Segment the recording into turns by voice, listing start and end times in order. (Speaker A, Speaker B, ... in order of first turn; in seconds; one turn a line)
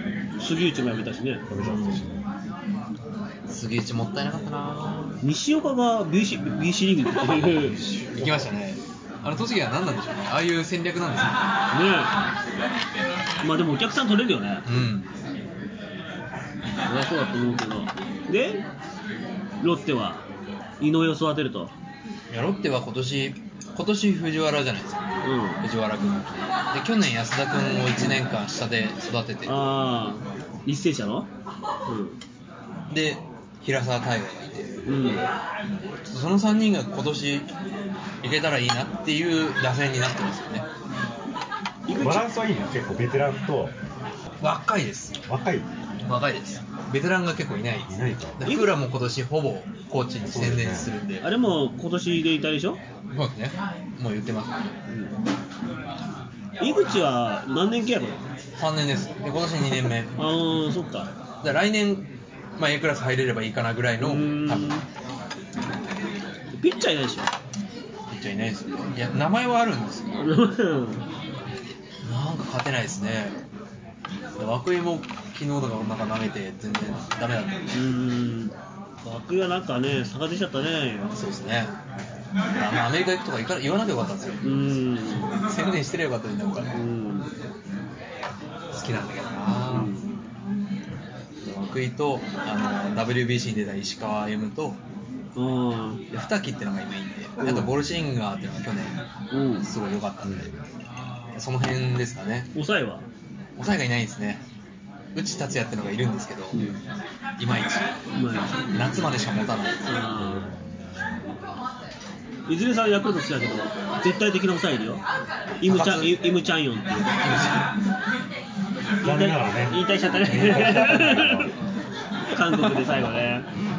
Speaker A: 0.4-1.4
Speaker B: 1.5-2.2
Speaker C: 1.6-2.0
Speaker C: 3.5-5.2
Speaker A: 5.2-7.8
Speaker C: 7.2-11.3
Speaker B: 8.0-8.5
Speaker A: 11.7-12.1
Speaker A: 13.4-14.6
Speaker C: 14.7-15.1
Speaker A: 16.9-18.6
Speaker A: 19.6-20.2
Speaker A: 20.8-21.7
Speaker C: 22.3-29.7
Speaker A: 25.2-25.6
Speaker A: 29.4-31.3
Speaker A: 31.9-32.2
Speaker C: 32.9-35.1
Speaker A: 34.8-35.2
Speaker C: 36.0-37.5
Speaker C: 38.2-40.7
Speaker A: 41.9-42.3
Speaker B: 41.9-43.7
Speaker C: 44.4-45.1
Speaker B: 45.3-45.7
Speaker C: 46.0-51.3
Speaker B: 47.9-48.4
Speaker A: 48.4-48.7
Speaker B: 50.2-50.9
Speaker A: 51.2-52.8
Speaker C: 53.1-54.5
Speaker A: 56.6-58.2
Speaker C: 58.6-60.1
Speaker A: 60.2-61.1
Speaker C: 61.4-62.0
Speaker C: 62.6-64.8
Speaker A: 64.0-64.8
Speaker A: 66.5-67.3
Speaker C: 68.1-70.2
Speaker A: 70.2-71.0
Speaker C: 72.0-73.3
Speaker C: 74.4-77.6
Speaker A: 77.7-81.1
Speaker C: 81.1-81.7
Speaker C: 82.5-84.5
Speaker A: 84.4-85.3
Speaker C: 85.3-86.7
Speaker A: 86.7-87.3
Speaker C: 88.7-89.9
Speaker A: 89.7-90.1
Speaker C: 91.4-94.8
Speaker A: 95.3-96.0
Speaker C: 96.1-99.0
Speaker A: 97.4-97.7
Speaker A: 99.3-99.7
Speaker C: 99.6-100.5
Speaker B: 100.2-100.6
Speaker C: 101.3-102.5
Speaker A: 102.5-103.0
Speaker C: 103.6-104.4
Speaker C: 105.1-106.7
Speaker A: 106.5-106.8
Speaker C: 107.4-107.9
Speaker A: 108.2-108.6
Speaker C: 108.7-109.9
Speaker A: 109.8-110.5
Speaker B: 110.2-111.2
Speaker A: 112.5-115.0
Speaker A: 115.6-117.1
Speaker C: 115.6-116.2
Speaker C: 117.1-117.7
Speaker A: 119.0-121.5
Speaker B: 119.0-121.5
Speaker A: 122.3-123.5